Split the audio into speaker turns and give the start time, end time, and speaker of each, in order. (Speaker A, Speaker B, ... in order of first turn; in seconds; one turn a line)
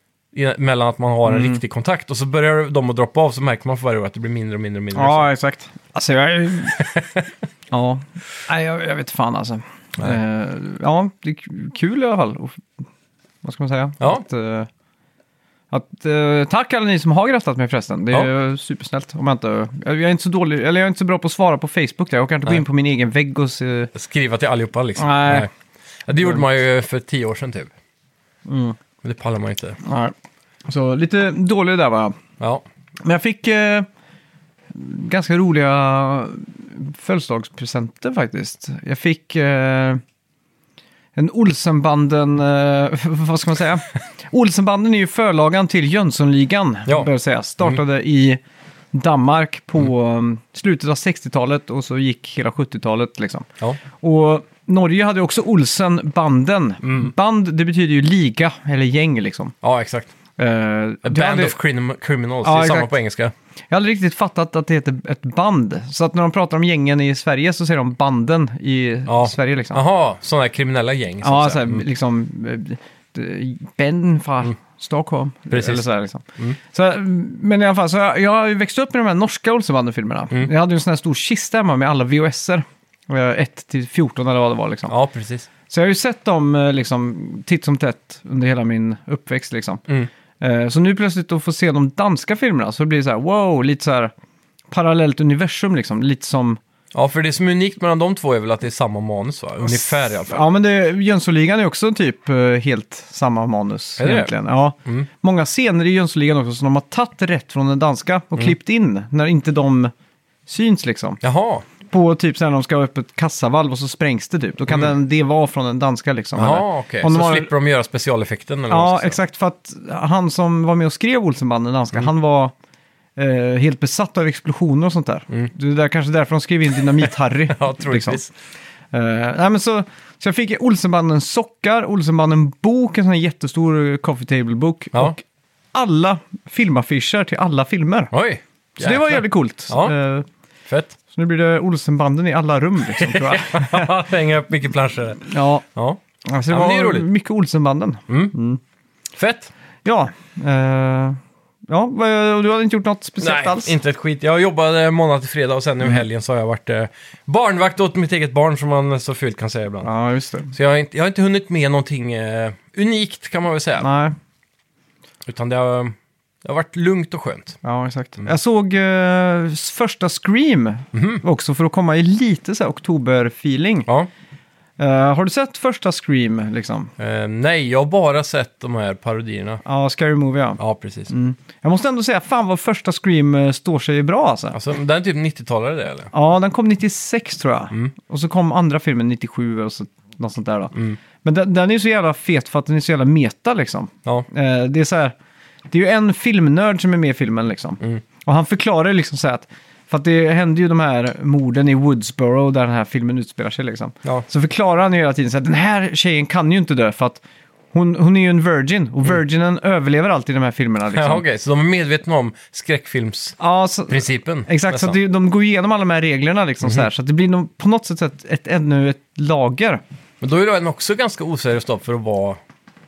Speaker A: 0.3-5.3
Speaker B: 1.3-1.6
Speaker B: 4.9-6.8
Speaker A: 6.8-7.3
Speaker B: 7.7-12.7
Speaker B: 13.4-14.7
Speaker B: 15.7-23.9
Speaker A: 23.9-25.5
Speaker B: 25.0-25.5
Speaker A: 26.1-27.7
Speaker B: 28.5-28.8
Speaker A: 29.0-29.8
Speaker B: 29.8-30.1
Speaker B: 30.7-32.2
Speaker B: 33.0-33.9
Speaker B: 34.7-40.0
Speaker B: 41.2-48.4
Speaker B: 48.9-53.5
Speaker B: 54.0-59.5
Speaker A: 56.8-57.1
Speaker A: 59.6-60.1
Speaker B: 60.4-61.6
Speaker A: 61.0-63.3
Speaker B: 62.4-62.9
Speaker B: 63.7-69.8
Speaker A: 69.1-71.8
Speaker B: 71.2-84.9
Speaker A: 75.5-75.8
Speaker A: 84.9-85.5
Speaker B: 85.7-89.8
Speaker B: 90.4-94.1
Speaker B: 94.7-96.6
Speaker A: 96.9-100.5
Speaker B: 99.6-109.9
Speaker A: 104.0-104.3
Speaker B: 110.5-111.2
Speaker A: 111.2-111.7
Speaker B: 111.9-117.5
Speaker A: 116.4-119.2
Speaker B: 118.7-122.5
Speaker B: 123.2-128.2
Speaker A: 127.0-128.3
Speaker B: 128.9-135.2
Speaker B: 135.7-138.1
Speaker A: 138.1-139.9
Speaker B: 138.8-140.3
Speaker A: 140.7-141.0
Speaker B: 141.1-143.9
Speaker A: 142.9-147.1
Speaker B: 145.3-145.6
Speaker B: 146.2-148.6
Speaker A: 148.1-148.3
Speaker A: 149.2-149.5
Speaker B: 149.8-153.7
Speaker A: 153.2-159.9
Speaker B: 159.8-160.5
Speaker A: 160.5-163.9
Speaker B: 163.8-164.2
Speaker A: 165.2-167.6
Speaker B: 167.6-173.9
Speaker A: 170.9-171.2
Speaker B: 174.8-176.9
Speaker A: 177.0-179.6
Speaker B: 179.6-184.6
Speaker A: 180.6-181.1
Speaker A: 184.5-186.1
Speaker B: 186.1-195.2
Speaker B: 195.7-207.2
Speaker B: 207.7-211.2
Speaker A: 210.9-215.0
Speaker B: 213.4-219.8
Speaker A: 220.2-222.4